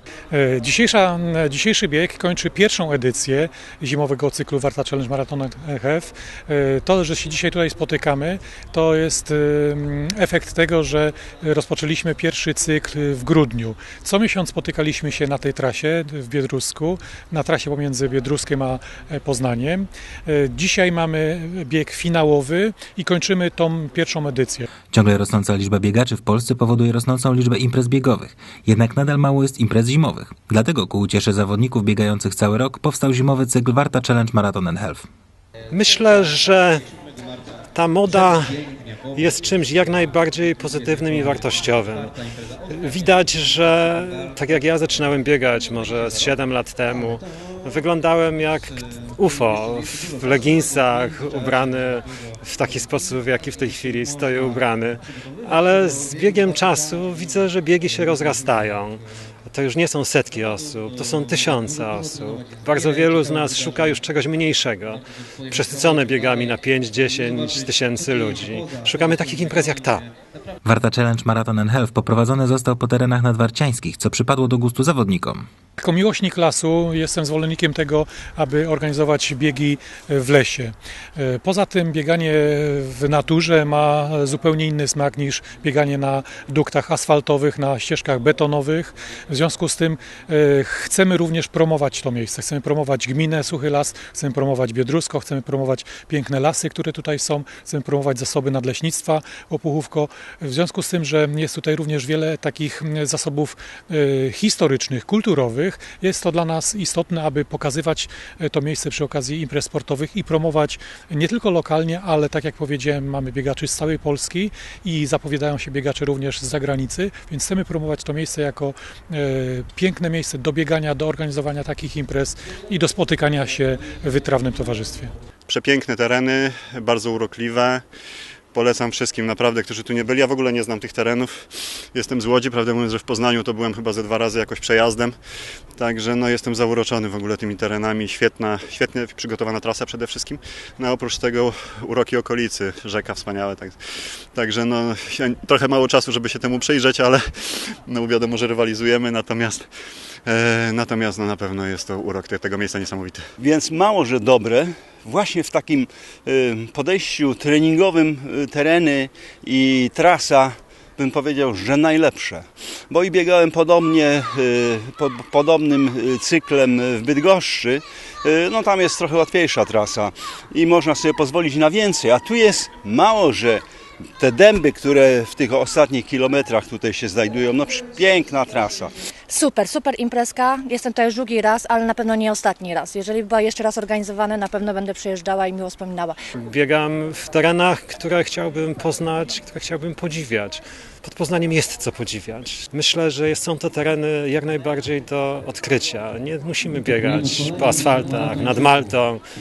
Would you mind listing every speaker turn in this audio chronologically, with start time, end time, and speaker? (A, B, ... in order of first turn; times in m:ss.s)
0:00.3-0:24.7 A
0:24.9-0:35.1 B
0:35.7-0:36.8 C
0:37.7-0:42.2 C
0:42.7-1:10.1 C
1:10.6-1:15.5 B
1:15.8-2:05.1 A
2:05.5-2:07.8 D
2:08.5-2:15.2 D
2:15.8-2:23.8 D
2:24.3-2:29.7 D
2:30.3-2:33.2 D
2:33.4-2:53.6 E
2:54.2-2:58.9 E
2:59.3-3:06.2 F
3:06.4-3:19.2 C